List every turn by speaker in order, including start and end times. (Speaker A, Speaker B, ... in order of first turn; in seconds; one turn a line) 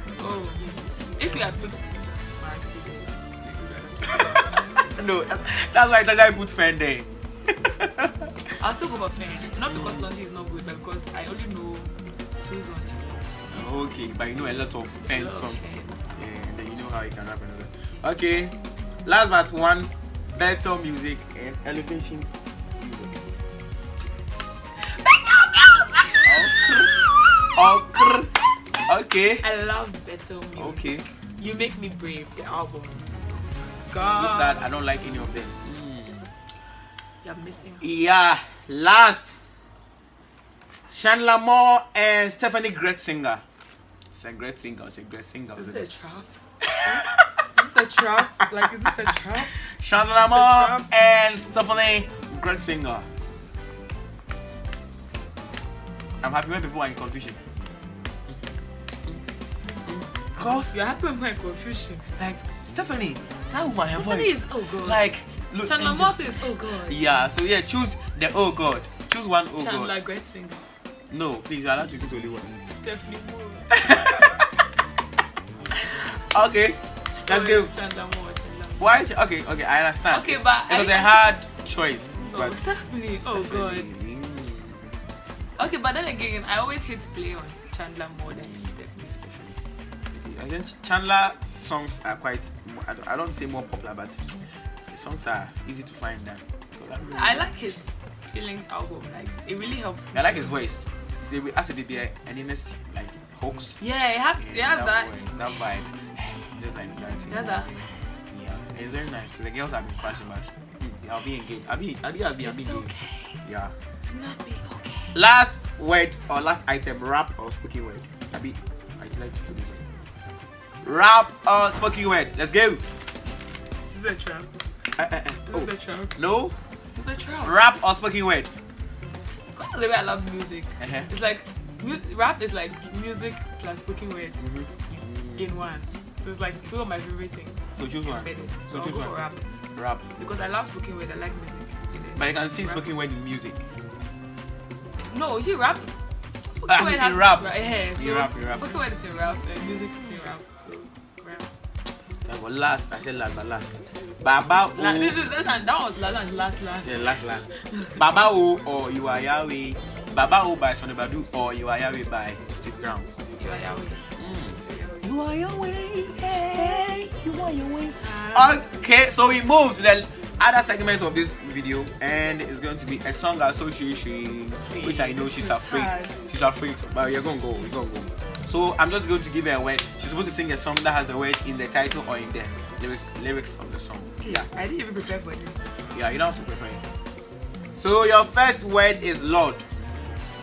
Speaker A: 0.2-4.7
Speaker B: 4.4-8.3
Speaker A: 8.6-13.3
Speaker B: 9.7-10.1
Speaker B: 13.5-23.2
Speaker A: 15.1-16.1
Speaker A: 24.8-28.2
Speaker B: 26.2-26.9
Speaker B: 27.6-28.3
Speaker B: 28.9-29.4
Speaker A: 29.4-30.9
Speaker B: 30.6-31.1
Speaker A: 31.4-33.1
Speaker A: 33.8-34.7
Speaker B: 34.0-36.3
Speaker A: 37.2-37.8
Speaker B: 37.8-39.4
Speaker B: 40.9-43.4
Speaker B: 44.1-45.8
Speaker A: 45.6-49.5
Speaker B: 46.6-47.3
Speaker B: 49.6-53.1
Speaker A: 50.3-50.9
Speaker B: 56.2-57.4
Speaker B: 59.9-60.7
Speaker A: 60.4-62.2
Speaker B: 62.2-69.9
Speaker A: 64.0-65.0
Speaker A: 65.6-67.0
Speaker A: 69.6-70.7
Speaker B: 71.1-72.6
Speaker A: 72.7-73.7
Speaker B: 73.7-74.5
Speaker B: 76.1-77.7
Speaker A: 77.3-78.9
Speaker B: 78.8-82.7
Speaker A: 80.1-81.4
Speaker A: 82.2-83.9
Speaker B: 83.2-85.0
Speaker A: 85.6-89.1
Speaker B: 88.3-89.6
Speaker B: 90.1-94.4
Speaker B: 94.9-97.8
Speaker A: 97.1-100.6
Speaker B: 100.2-103.8
Speaker A: 103.8-105.9
Speaker B: 104.4-112.9
Speaker A: 107.3-107.8
Speaker A: 112.4-113.4
Speaker B: 113.4-113.7
Speaker A: 114.0-115.2
Speaker B: 115.1-119.8
Speaker B: 120.8-122.8
Speaker A: 123.9-124.5
Speaker B: 125.0-126.6
Speaker A: 125.5-126.2
Speaker A: 127.0-127.5
Speaker B: 127.4-128.5
Speaker A: 129.5-134.4
Speaker B: 130.8-131.1
Speaker B: 134.4-135.5
Speaker A: 135.3-139.5
Speaker B: 137.8-139.2
Speaker B: 139.8-140.1
Speaker A: 140.2-142.8
Speaker B: 142.2-143.6
Speaker A: 145.1-145.9
Speaker A: 146.5-151.5
Speaker B: 146.7-148.8
Speaker B: 152.3-155.2
Speaker A: 154.8-158.0
Speaker B: 156.8-163.1
Speaker A: 163.4-164.1
Speaker B: 164.2-184.5
Speaker A: 164.7-165.0
Speaker A: 168.0-168.6
Speaker A: 174.7-176.2
Speaker A: 184.2-185.7
Speaker B: 185.9-186.8
Speaker B: 187.8-189.6